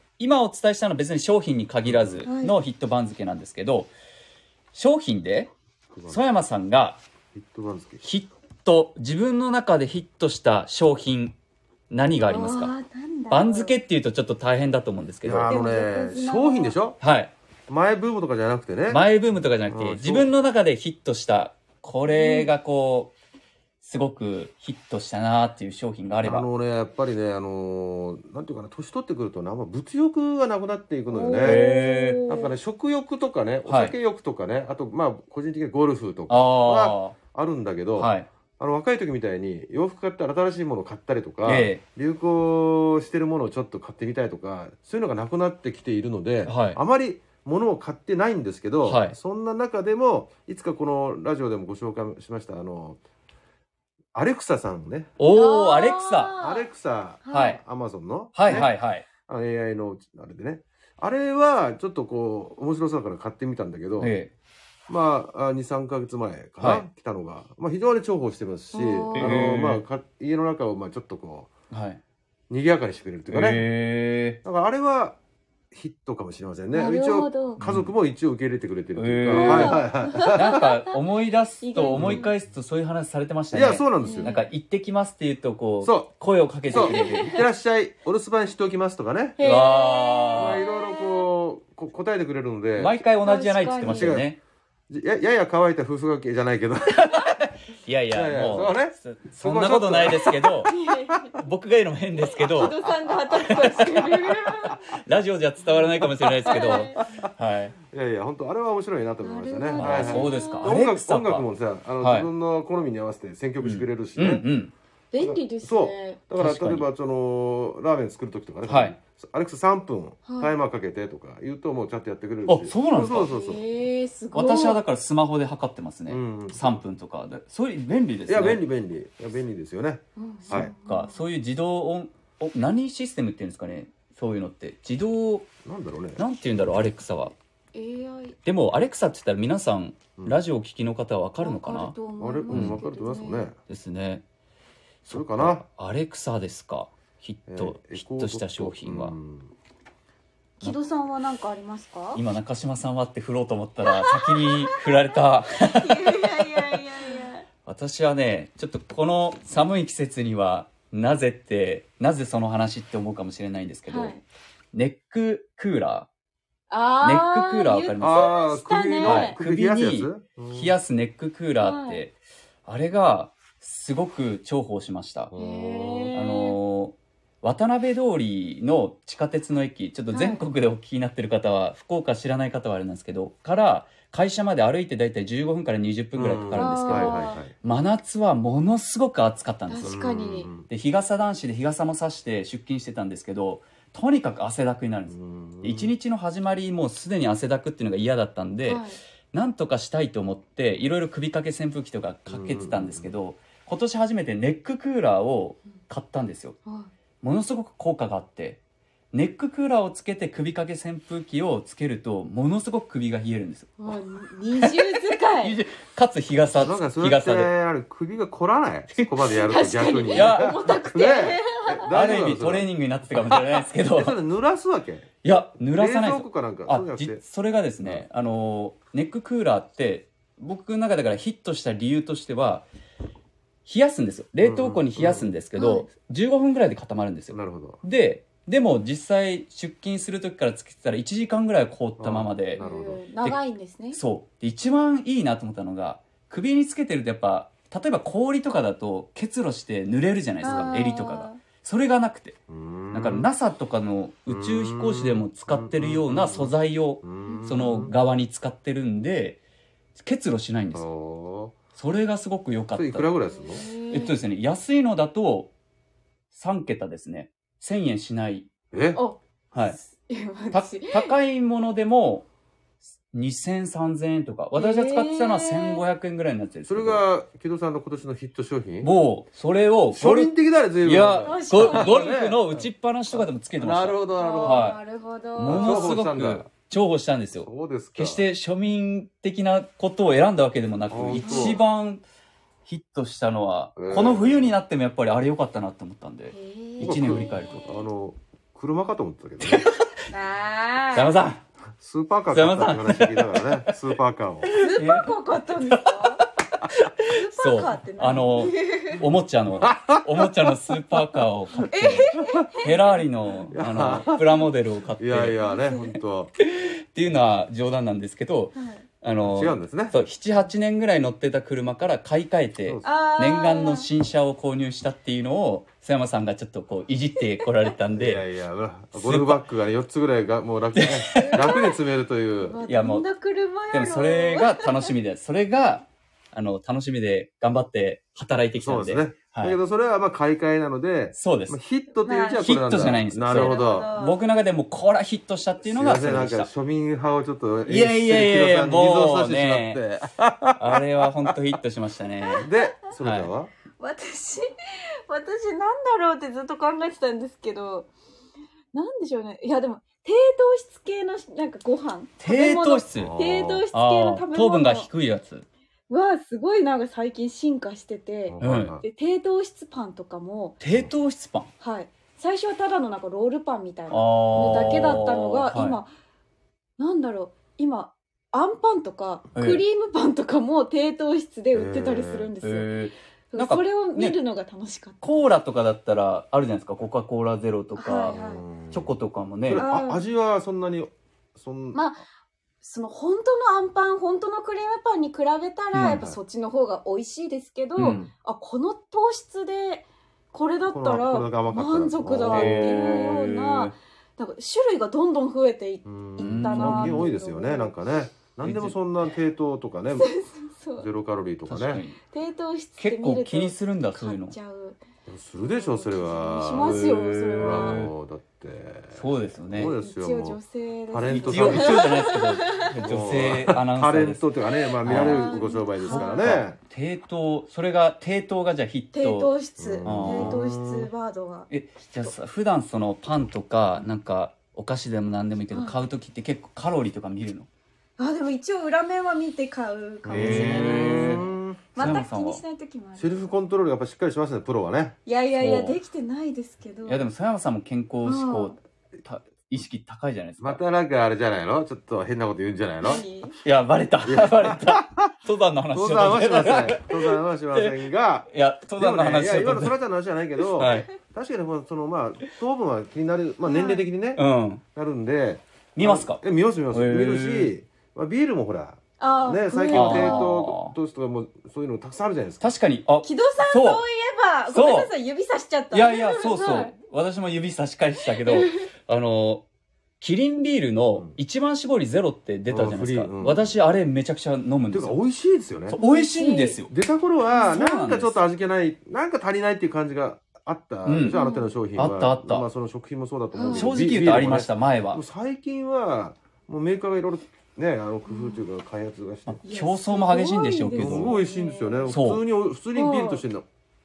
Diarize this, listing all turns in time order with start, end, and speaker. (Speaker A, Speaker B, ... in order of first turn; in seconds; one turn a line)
Speaker A: 0.2-3.9
Speaker B: 1.8-2.2
Speaker C: 2.2-2.5
Speaker A: 4.7-5.5
Speaker B: 5.9-6.2
Speaker A: 6.1-7.0
Speaker B: 7.3-8.1
Speaker A: 8.0-11.3
Speaker A: 11.9-12.7
Speaker C: 12.2-13.8
Speaker A: 13.3-15.6
Speaker B: 15.2-17.0
Speaker C: 15.5-16.8
Speaker A: 17.0-17.3
Speaker B: 17.7-19.0
Speaker A: 18.9-23.1
Speaker B: 19.6-20.3
Speaker C: 22.1-22.5
Speaker A: 23.8-26.5
Speaker B: 26.2-31.6
Speaker C: 31.1-32.5
Speaker A: 31.4-32.2
Speaker B: 32.3-53.0
Speaker A: 33.6-33.9
Speaker A: 36.3-37.1
Speaker A: 38.0-38.3
Speaker A: 41.4-41.8
Speaker A: 46.5-46.8
Speaker A: 48.8-49.2
Speaker B: 54.1-55.1
Speaker A: 55.2-56.4
Speaker C: 55.3-56.7
Speaker B: 56.4-58.7
Speaker C: 57.2-57.6
Speaker A: 57.3-57.6
Speaker A: 58.3-59.0
Speaker B: 59.3-64.1
Speaker A: 64.0-64.3
Speaker B: 64.9-71.5
Speaker A: 66.6-66.8
Speaker C: 68.7-69.4
Speaker A: 69.1-69.8
Speaker A: 71.7-72.0
Speaker B: 72.5-73.6
Speaker A: 73.3-74.4
Speaker B: 74.4-75.2
Speaker B: 75.7-80.6
Speaker C: 76.7-77.6
Speaker A: 77.6-77.9
Speaker A: 78.9-79.8
Speaker C: 79.3-80.9
Speaker A: 80.3-87.4
Speaker C: 81.6-82.3
Speaker B: 81.9-82.3
Speaker B: 83.5-84.3
Speaker C: 84.0-84.5
Speaker B: 85.8-86.1
Speaker B: 86.7-89.4
Speaker C: 86.7-87.4
Speaker C: 89.3-91.3
Speaker A: 89.4-90.6
Speaker B: 90.3-93.0
Speaker A: 92.8-94.4
Speaker C: 93.2-94.2
Speaker B: 93.8-94.3
Speaker B: 94.9-97.2
Speaker A: 97.0-100.7
Speaker B: 98.1-101.3
Speaker C: 100.3-101.3
Speaker A: 101.3-102.8
Speaker C: 102.3-104.9
Speaker A: 103.3-104.0
Speaker A: 104.6-107.7
Speaker B: 106.2-107.3
Speaker C: 106.5-107.0
Speaker B: 107.9-114.4
Speaker C: 109.2-110.7
Speaker A: 109.8-112.3
Speaker A: 113.6-114.7
Speaker C: 115.1-116.2
Speaker B: 115.2-123.6
Speaker A: 116.4-116.9
Speaker A: 118.7-119.0
Speaker C: 120.2-120.5
Speaker A: 122.5-123.3
Speaker C: 123.1-124.8
Speaker A: 124.3-128.6
Speaker B: 126.1-126.8
Speaker B: 128.3-130.7
Speaker C: 130.2-131.2
Speaker A: 130.5-135.5
Speaker B: 135.6-136.2
Speaker A: 136.2-137.3
Speaker C: 137.7-138.4
Speaker A: 138.4-141.9
Speaker C: 141.4-143.5
Speaker B: 142.2-143.5
Speaker A: 142.5-142.8
Speaker A: 143.7-144.2
Speaker B: 145.1-145.6
Speaker A: 145.1-149.1
Speaker B: 147.5-149.5
Speaker C: 150.6-152.2
Speaker A: 152.1-156.8
Speaker C: 153.8-154.8
Speaker C: 155.6-157.4
Speaker A: 157.6-164.1
Speaker C: 163.9-164.2
Speaker A: 164.7-166.1
Speaker C: 166.7-169.4
Speaker A: 167.0-168.3
Speaker B: 168.0-170.7
Speaker A: 169.0-175.3
Speaker C: 171.6-172.0
Speaker B: 175.3-176.1
Speaker C: 175.4-176.6
Speaker A: 176.1-190.0
Speaker C: 180.1-180.4
Speaker B: 186.2-187.5
Speaker C: 186.5-187.4
Speaker C: 189.7-190.5
Speaker B: 189.8-190.7
Speaker A: 190.7-206.6
Speaker B: 195.1-195.9
Speaker C: 198.7-199.0
Speaker B: 202.3-203.1
Speaker C: 206.7-206.9
Speaker A: 207.2-208.6
Speaker A: 209.1-214.0
Speaker C: 213.8-215.6
Speaker A: 214.6-217.5
Speaker B: 216.6-225.1
Speaker C: 219.3-221.9
Speaker A: 220.1-220.6
Speaker A: 221.9-224.2
Speaker A: 225.2-232.7
Speaker B: 225.6-227.2
Speaker A: 233.6-242.6
Speaker B: 234.4-235.3
Speaker C: 235.5-235.9
Speaker B: 237.3-237.8
Speaker B: 242.0-243.0
Speaker C: 242.5-244.0
Speaker A: 243.9-252.4
Speaker C: 250.4-251.4
Speaker B: 252.5-253.3
Speaker A: 252.9-259.4
Speaker B: 254.3-257.9
Speaker C: 257.2-257.9
Speaker A: 259.9-260.9
Speaker B: 260.7-261.6
Speaker A: 261.8-263.1
Speaker B: 262.7-263.6
Speaker C: 263.3-264.2
Speaker A: 263.9-265.5
Speaker A: 266.3-268.5
Speaker B: 268.7-269.0
Speaker C: 268.9-271.1
Speaker A: 269.5-269.8
Speaker A: 270.5-272.3
Speaker A: 273.1-277.0
Speaker C: 274.5-275.8
Speaker B: 276.6-278.9
Speaker A: 278.8-284.8
Speaker B: 279.9-284.7
Speaker C: 281.2-282.1
Speaker C: 284.1-286.0
Speaker A: 285.4-292.0
Speaker B: 285.4-286.5
Speaker B: 287.4-288.2
Speaker B: 290.9-291.6
Speaker C: 291.1-291.6
Speaker A: 292.6-297.6
Speaker B: 293.8-294.6
Speaker C: 296.3-297.9
Speaker B: 296.8-299.7
Speaker A: 299.4-299.9
Speaker C: 300.1-301.2
Speaker A: 300.9-301.4
Speaker B: 301.8-304.5
Speaker A: 302.3-303.8
Speaker A: 304.4-305.1
Speaker C: 304.6-306.2
Speaker A: 305.7-315.4
Speaker C: 307.1-309.0
Speaker B: 309.6-310.6
Speaker C: 311.7-313.0
Speaker B: 313.5-314.4
Speaker B: 315.0-316.3
Speaker C: 315.4-316.0
Speaker A: 316.4-328.2
Speaker C: 318.5-318.8
Speaker B: 319.2-320.0
Speaker B: 322.6-322.9
Speaker C: 322.8-323.9
Speaker B: 327.9-332.6
Speaker A: 328.9-329.4
Speaker A: 330.8-331.5
Speaker C: 331.1-331.8
Speaker C: 332.4-334.9
Speaker A: 332.6-333.1
Speaker A: 333.7-339.6
Speaker B: 338.6-343.9
Speaker A: 341.1-341.6
Speaker C: 342.0-344.2
Speaker A: 342.4-346.5
Speaker B: 345.6-351.3
Speaker A: 347.6-349.8
Speaker A: 350.6-353.3
Speaker C: 352.2-352.6
Speaker B: 352.4-353.5
Speaker C: 353.8-354.4
Speaker C: 355.1-357.9
Speaker C: 358.7-364.9
Speaker A: 362.2-363.2
Speaker B: 362.9-363.6
Speaker A: 363.7-365.5
Speaker C: 365.9-370.6
Speaker B: 368.3-368.8
Speaker A: 368.4-368.8
Speaker A: 370.6-371.5
Speaker C: 371.6-375.9
Speaker A: 373.9-375.8
Speaker C: 376.8-382.8
Speaker A: 379.3-379.6
Speaker B: 381.5-382.3
Speaker A: 382.4-384.2
Speaker C: 383.3-385.2
Speaker A: 385.0-389.6
Speaker C: 387.8-388.4
Speaker B: 388.1-388.9
Speaker B: 389.4-391.8
Speaker C: 389.6-390.0
Speaker C: 391.7-392.0
Speaker C: 392.6-407.7
Speaker A: 395.7-396.0
Speaker B: 395.8-396.2
Speaker A: 397.8-398.1
Speaker B: 400.7-403.2
Speaker A: 402.3-403.7
Speaker B: 405.8-410.1
Speaker A: 406.2-407.1
Speaker A: 408.4-408.8
Speaker C: 409.9-410.9
Speaker B: 410.8-411.8
Speaker A: 411.5-412.0
Speaker C: 412.0-414.8
Speaker A: 412.8-414.3
Speaker B: 415.1-420.4
Speaker C: 415.4-417.9
Speaker A: 416.6-417.9
Speaker A: 418.9-419.7
Speaker C: 419.8-422.8
Speaker B: 420.9-421.9
Speaker A: 421.2-424.3
Speaker B: 422.8-426.6
Speaker A: 424.8-429.3
Speaker C: 424.9-426.4
Speaker C: 428.9-431.5
Speaker B: 429.6-430.9
Speaker A: 429.8-430.4
Speaker A: 431.5-437.5
Speaker C: 435.5-435.8
Speaker C: 438.0-443.2
Speaker B: 440.0-442.0
Speaker A: 440.1-441.2
Speaker A: 441.8-442.4
Speaker B: 443.0-444.9
Speaker C: 445.1-447.1
Speaker A: 445.4-445.8
Speaker A: 446.9-450.6
Speaker C: 448.0-448.6
Speaker B: 450.4-453.0
Speaker C: 452.8-453.4
Speaker A: 453.4-459.7
Speaker B: 454.0-455.1
Speaker B: 455.7-464.2
Speaker A: 460.6-460.9
Speaker C: 460.6-460.8
Speaker C: 463.4-463.9
Speaker A: 464.1-464.6
Speaker B: 464.7-472.5
Speaker A: 465.8-467.5
Speaker C: 469.0-470.3
Speaker A: 469.7-470.7
Speaker A: 472.4-473.8
Speaker C: 473.0-476.7
Speaker A: 474.5-474.9
Speaker A: 475.7-479.4
Speaker C: 478.0-478.7
Speaker A: 480.0-485.0
Speaker B: 482.5-483.6
Speaker B: 484.7-485.8
Speaker A: 485.7-486.7
Speaker C: 485.8-486.6
Speaker B: 486.7-499.4
Speaker A: 487.3-488.2
Speaker A: 490.9-491.2
Speaker C: 491.1-491.6
Speaker A: 491.7-492.5
Speaker C: 493.3-493.7
Speaker A: 493.5-495.0
Speaker C: 498.1-498.5
Speaker A: 499.2-501.2
Speaker C: 499.4-501.9
Speaker B: 500.8-503.4
Speaker A: 501.9-502.2
Speaker C: 502.7-503.2